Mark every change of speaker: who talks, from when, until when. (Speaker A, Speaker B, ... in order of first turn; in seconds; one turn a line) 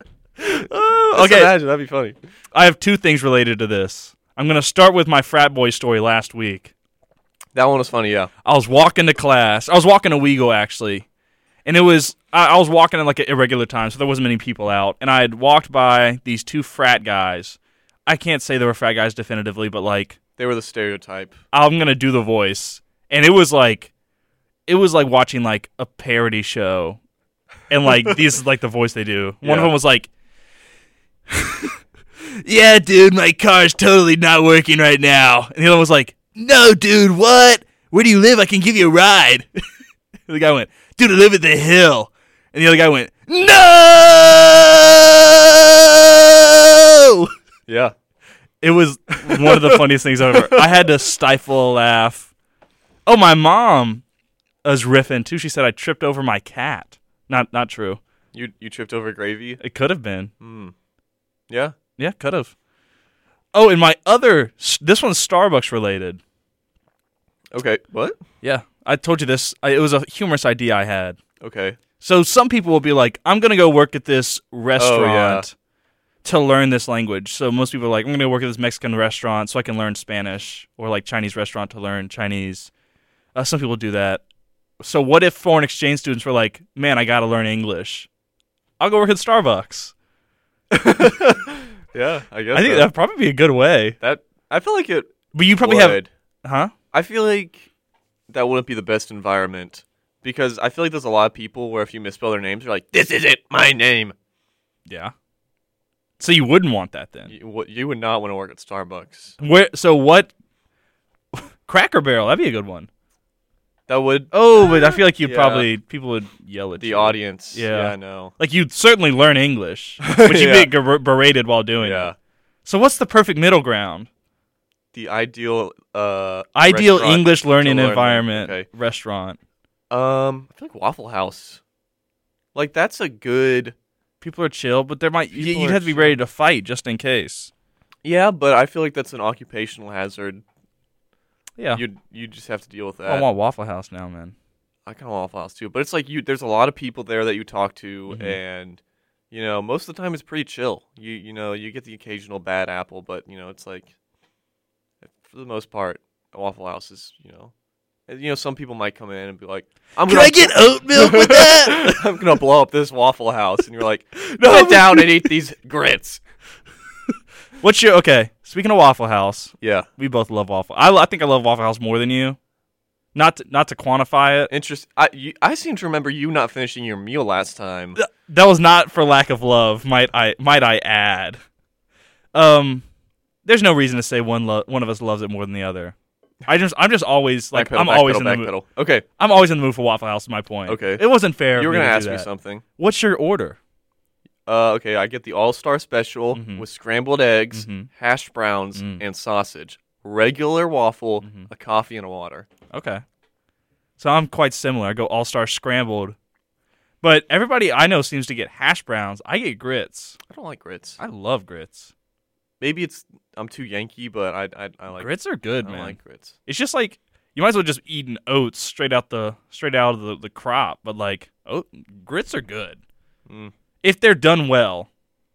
Speaker A: 0.4-1.5
Speaker B: 1.1-2.1
Speaker A: 2.5-6.7
Speaker B: 7.5-8.3
Speaker A: 8.4-11.0
Speaker A: 11.6-20.2
Speaker B: 20.4-21.4
Speaker A: 21.5-23.9
Speaker A: 24.7-27.0
Speaker A: 27.7-30.1
Speaker B: 29.4-29.7
Speaker A: 31.3-31.7
Speaker A: 32.4-39.5
Speaker A: 40.3-47.3
Speaker B: 47.7-47.9
Speaker A: 48.6-52.3
Speaker B: 49.3-50.7
Speaker A: 53.0-54.0
Speaker A: 54.6-58.0
Speaker B: 58.3-59.6
Speaker A: 59.6-60.3
Speaker B: 60.4-60.7
Speaker B: 61.5-61.7
Speaker A: 62.0-62.5
Speaker A: 63.5-66.2
Speaker B: 67.5-68.2
Speaker A: 68.4-71.2
Speaker B: 71.4-71.8
Speaker A: 72.0-75.5
Speaker B: 74.8-75.5
Speaker A: 76.2-82.7
Speaker A: 83.3-84.2
Speaker A: 84.8-88.1
Speaker A: 88.8-89.9
Speaker B: 90.7-92.9
Speaker A: 92.5-94.0
Speaker B: 94.0-96.1
Speaker A: 95.3-96.7
Speaker B: 96.9-97.7
Speaker B: 98.3-104.1
Speaker A: 104.9-105.1
Speaker A: 106.2-107.3
Speaker B: 107.3-109.3
Speaker A: 109.4-110.3
Speaker A: 111.3-112.9
Speaker B: 113.9-115.7
Speaker A: 114.3-122.1
Speaker B: 116.8-118.3
Speaker B: 120.0-120.7
Speaker B: 121.8-122.1
Speaker A: 122.6-124.1
Speaker B: 124.9-128.7
Speaker A: 126.5-129.4
Speaker B: 129.9-131.6
Speaker B: 132.5-133.8
Speaker A: 134.2-137.5
Speaker B: 135.3-136.2
Speaker B: 138.0-140.4
Speaker A: 141.6-141.8
Speaker B: 141.7-143.2
Speaker A: 143.1-144.3
Speaker B: 144.8-153.9
Speaker A: 148.1-148.4
Speaker B: 155.0-157.5
Speaker B: 158.1-166.2
Speaker A: 160.1-162.0
Speaker A: 164.2-165.3
Speaker A: 167.6-172.4
Speaker B: 169.6-169.9
Speaker A: 173.1-174.5
Speaker B: 174.5-178.0
Speaker A: 177.9-181.4
Speaker A: 182.3-182.8
Speaker A: 183.4-185.9
Speaker A: 186.5-188.5
Speaker B: 187.5-189.0
Speaker A: 189.2-193.6
Speaker B: 190.7-192.6
Speaker B: 194.4-202.5
Speaker A: 196.3-196.7
Speaker A: 197.5-197.9
Speaker A: 198.7-199.0
Speaker A: 201.2-201.5
Speaker A: 202.7-203.0
Speaker A: 204.0-206.2
Speaker A: 207.0-210.2
Speaker B: 210.3-211.0
Speaker A: 211.0-211.9
Speaker B: 212.6-215.1
Speaker A: 214.9-222.8
Speaker B: 215.6-216.4
Speaker B: 223.3-223.5
Speaker A: 223.8-224.9